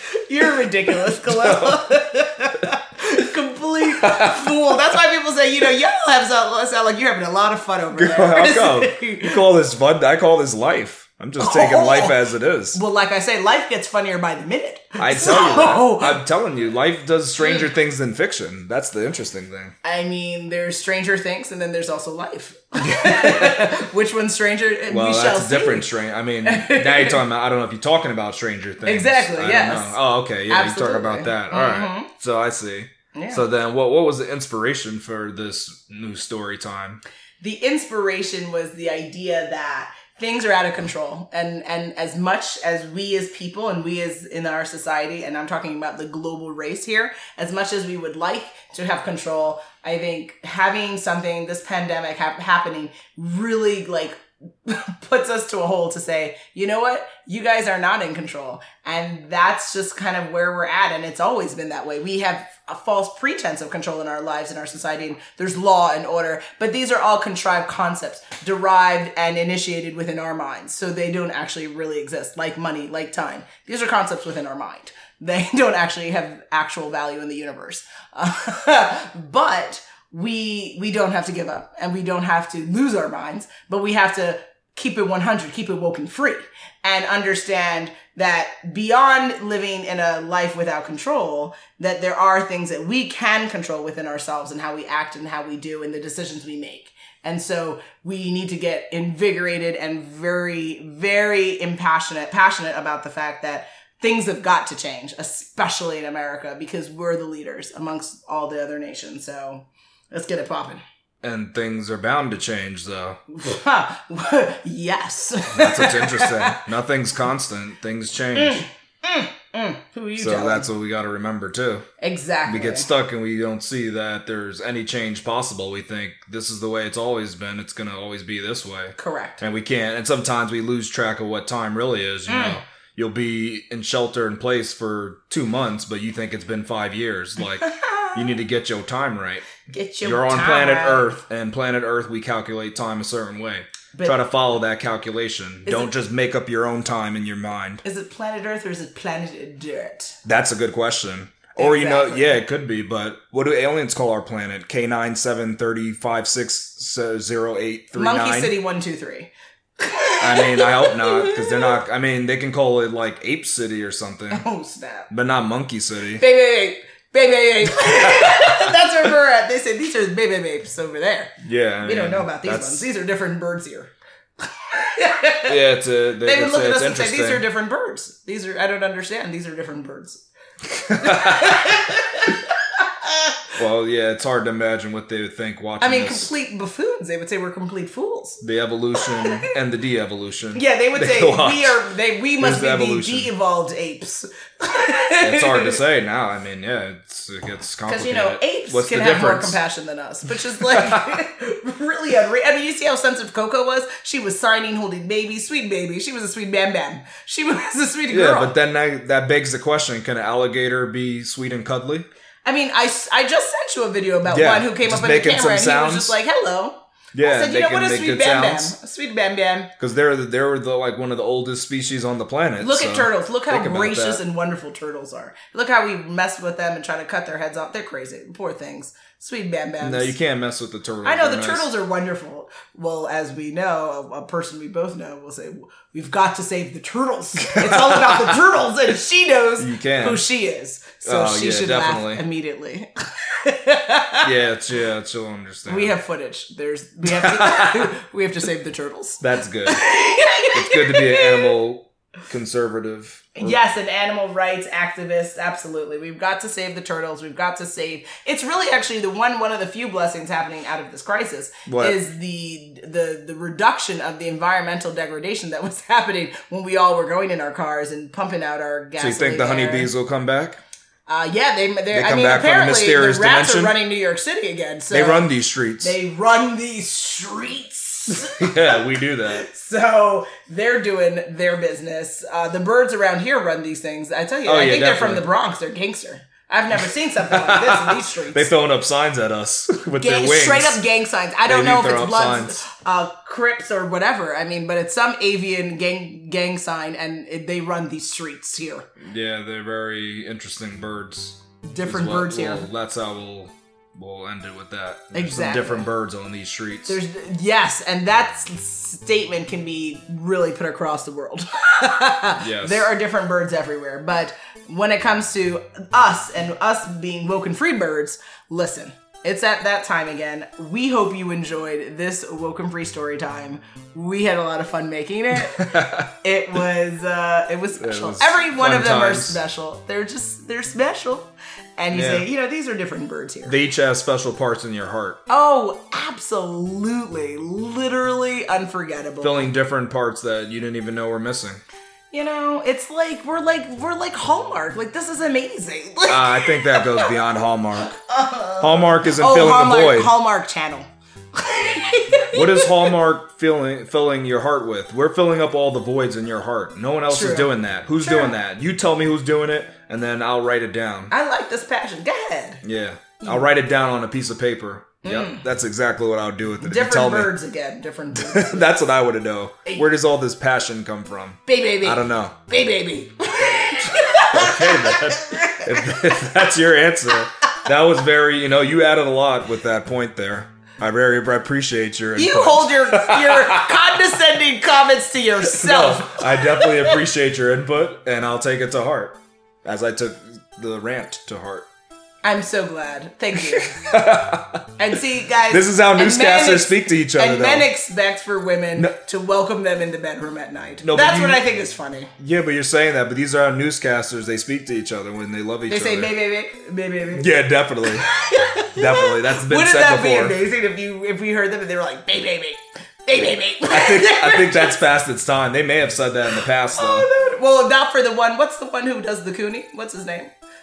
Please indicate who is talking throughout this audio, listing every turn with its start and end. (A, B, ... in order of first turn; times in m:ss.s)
0:00.3-0:09.4 A
0:01.1-0:01.9 B
0:03.9-0:04.5 B
0:08.0-0:12.8 B
0:11.4-0:12.2 A
0:12.7-0:16.2 A
0:15.0-0:19.7 B
0:17.4-0:17.7 A
0:19.8-0:25.9 A
0:22.9-0:23.6 B
0:24.9-0:37.0 B
0:26.4-0:27.2 A
0:28.8-0:32.1 A
0:33.1-0:33.4 A
0:37.4-1:50.8 A
1:51.2-1:53.2 B
1:53.3-1:56.6 A
1:55.5-1:58.6 B
1:58.3-2:00.7 A
2:00.2-2:01.8 B
2:02.0-2:02.9 A
2:02.5-2:19.5 B
2:09.0-2:09.4 A
2:12.3-2:12.6 A
2:17.5-2:18.3 A
2:19.7-2:21.2 A
2:20.0-2:27.8 B
2:23.9-2:24.2 A
2:25.6-2:25.9 A
2:27.8-2:30.2 A
2:30.2-2:38.5 B
2:31.6-2:32.4 A
2:38.0-2:41.8 A
2:40.2-2:44.4 B
2:44.3-2:45.1 A
2:45.1-2:46.2 B
2:46.2-2:51.3 A
2:47.8-2:48.6 B
2:51.4-2:52.8 B
2:51.8-2:53.9 A
2:54.7-2:55.6 A
2:55.4-2:57.4 B
2:56.2-3:00.2 A
3:00.9-3:01.6 B
3:00.9-3:03.4 A
3:03.6-3:06.3 B
3:05.8-3:08.4 A
3:08.4-3:11.8 B
3:09.0-3:09.4 A
3:10.6-3:15.8 A
3:12.4-3:13.3 B
3:15.2-3:19.6 B
3:17.8-3:28.6 A
3:20.6-3:21.2 B
3:28.1-3:32.1 B
3:32.4-3:39.7 A
3:34.3-3:36.2 B
3:37.1-3:38.7 B
3:39.8-3:44.2 B
3:42.6-3:50.1 A
3:49.8-3:51.7 B
3:51.0-4:04.3 A
3:57.4-3:58.3 B
3:59.6-4:00.2 B
4:01.0-4:02.2 B
4:04.2-4:05.9 B
4:05.7-4:11.5 A
4:07.1-4:07.9 B
4:09.2-4:09.8 B
4:10.5-4:13.6 B
4:13.4-4:29.9 A
4:21.7-4:22.0 B
4:29.0-4:30.6 B
4:31.1-4:35.3 A
4:31.9-4:33.8 B
4:34.9-4:35.9 B
4:35.8-4:48.5 A
4:38.1-4:39.5 B
4:44.4-4:45.2 B
4:46.8-4:50.8 B
4:50.0-4:58.9 A
4:51.4-4:52.6 B
4:59.0-5:07.0 B
5:01.6-5:02.7 A
5:05.1-5:05.9 A
5:06.9-5:33.6 A
5:12.4-5:12.9 B
5:25.6-5:26.1 B
5:27.8-5:29.4 B
5:31.9-5:32.3 B
5:33.4-5:35.2 B
5:35.3-5:39.5 A
5:39.2-5:41.6 B
5:42.1-5:47.1 A
5:46.1-5:47.9 B
5:47.8-5:52.9 A
5:48.6-5:50.1 B
5:52.3-6:01.1 B
5:57.1-5:58.3 A
6:01.1-6:02.6 A
6:02.6-6:07.3 B
6:05.0-6:05.4 A
6:06.6-6:08.7 A
6:08.2-6:12.4 B
6:11.4-6:16.1 A
6:14.3-6:23.8 B
6:22.2-6:27.0 A
6:25.4-6:31.7 B
6:32.2-6:34.0 A
6:33.4-6:34.6 B
6:34.8-6:42.1 A
6:35.5-6:37.7 B
6:40.8-6:41.4 B
6:42.2-6:46.1 B
6:45.7-6:47.3 A
6:47.2-6:48.1 B
6:47.8-6:54.8 A
6:48.7-6:50.4 B
6:53.7-6:57.1 B
6:56.7-7:00.3 A